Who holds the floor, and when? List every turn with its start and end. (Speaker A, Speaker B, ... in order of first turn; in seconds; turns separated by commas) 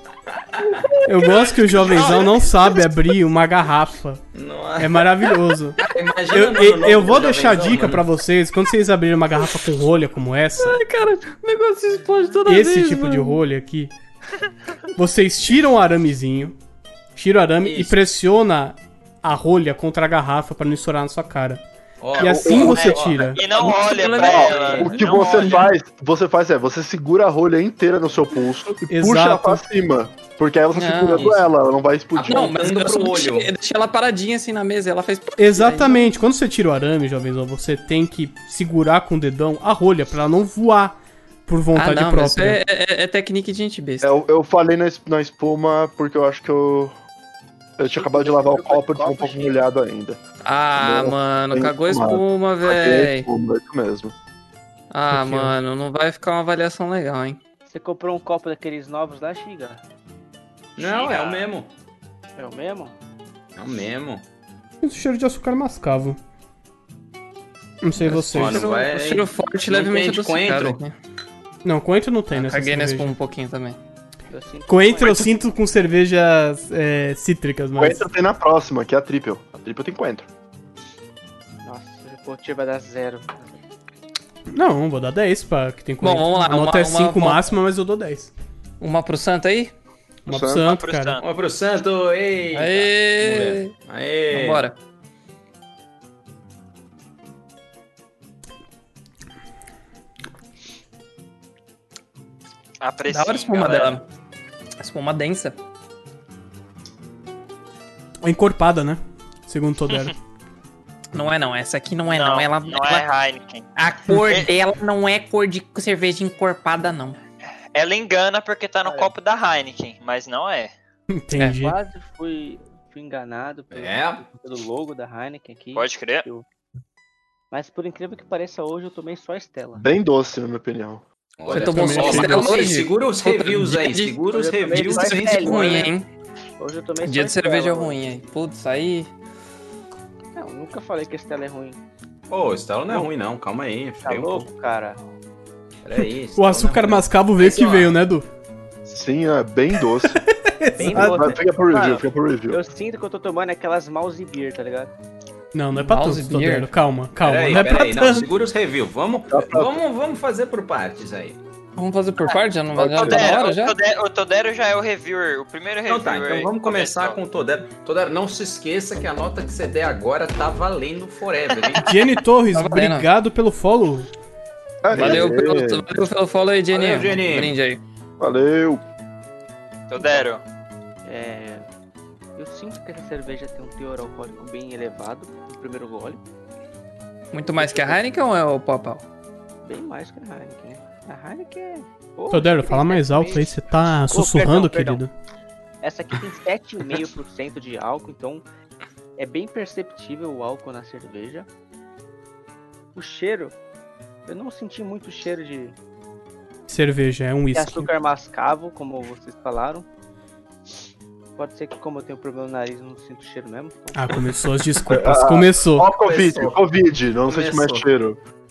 Speaker A: 0.3-0.8, Speaker B: 1.1-4.2, Speaker C: 1.8-2.3, Speaker A: 4.3-5.1, Speaker B: 4.8-5.8, Speaker A: 5.8-8.1, Speaker B: 6.3-10.8, Speaker D: 10.6-13.4, Speaker B: 12.4-13.9, Speaker B: 14.9-16.6, Speaker B: 17.1-21.6, Speaker A: 17.6-18.0, Speaker A: 22.0-23.4, Speaker B: 22.1-23.4, Speaker E: 22.2-32.5, Speaker D: 23.1-25.4, Speaker C: 23.3-25.7, Speaker F: 24.4-24.9, Speaker A: 24.5-25.4, Speaker B: 28.9-29.6, Speaker D: 30.7-31.4, Speaker A: 32.1-33.5, Speaker D: 32.2-36.1, Speaker B: 35.4-42.6, Speaker D: 41.7-44.1, Speaker E: 44.0-46.9, Speaker E: 47.8-50.2, Speaker F: 47.8-49.6, Speaker D: 50.4-53.3, Speaker E: 50.8-54.1, Speaker D: 54.9-57.4, Speaker B: 55.1-55.5, Speaker F: 57.7-59.8, Speaker F: 60.8-61.4, Speaker A: 60.8-61.7, Speaker F: 62.4-62.9, Speaker A: 63.5-64.2, Speaker B: 64.8-66.2, Speaker B: 67.8-68.6, Speaker D: 68.0-70.9, Speaker A: 68.3-70.8, Speaker B: 71.6-73.1, Speaker D: 72.3-73.8, Speaker F: 74.3-75.3, Speaker B: 74.7-78.0, Speaker E: 77.8-80.3, Speaker F: 81.6-83.6, Speaker B: 84.5-88.3, Speaker D: 86.0-87.5, Speaker D: 88.8-89.7, Speaker B: 90.2-91.2, Speaker E: 90.3-90.6, Speaker C: 90.7-91.3, Speaker A: 91.2-94.6, Speaker D: 92.5-93.7, Speaker D: 94.3-94.8, Speaker C: 102.8-104.0, Speaker D: 103.1-104.1, Speaker D: 104.8-105.6, Speaker B: 108.2-110.1, Speaker D: 111.1-113.0, Speaker C: 112.1-113.7, Speaker D: 113.8-117.2, Speaker C: 117.7-120.7, Speaker F: 118.8-119.1, Speaker B: 121.1-121.8, Speaker F: 121.5-126.4, Speaker A: 123.7-124.2, Speaker C: 125.7-126.2, Speaker F: 127.5-129.8, Speaker E: 129.8-131.0, Speaker A: 131.4-135.9, Speaker D: 131.5-134.2, Speaker B: 131.6-132.6, Speaker F: 134.3-135.9, Speaker D: 134.7-136.1, Speaker F: 136.6-138.0, Speaker D: 137.0-139.1, Speaker F: 140.3-141.8, Speaker A: 142.3-144.5, Speaker F: 144.0-145.0, Speaker A: 145.8-147.9, Speaker B: 146.3-148.3, Speaker E: 148.8-150.2, Speaker B: 150.0-151.3, Speaker F: 150.8-154.9, Speaker E: 150.9-152.6, Speaker B: 155.5-158.3, Speaker D: 155.8-156.7, Speaker A: 157.2-161.4, Speaker E: 159.3-159.8, Speaker D: 161.8-163.8, Speaker E: 162.7-163.4, Speaker C: 163.0-167.2, Speaker A: 165.9-171.9, Speaker B: 171.8-174.1, Speaker D: 172.5-173.1, Speaker E: 174.8-175.8, Speaker D: 174.9-177.8, Speaker A: 176.7-177.6, Speaker E: 178.2-178.8, Speaker C: 179.9-180.4, Speaker F: 180.0-180.2, Speaker F: 181.0-181.7, Speaker F: 182.3-186.2, Speaker D: 187.3-189.0, Speaker F: 187.6-187.9, Speaker F: 189.6-195.0, Speaker B: 192.3-195.1, Speaker F: 195.8-198.4, Speaker F: 199.2-201.5, Speaker F: 202.9-203.5, Speaker F: 204.3-205.8, Speaker B: 206.7-207.9, Speaker F: 207.5-209.8, Speaker F: 211.4-214.2, Speaker B: 213.9-215.9, Speaker E: 214.9-218.2, Speaker A: 215.9-216.7, Speaker A: 217.2-217.8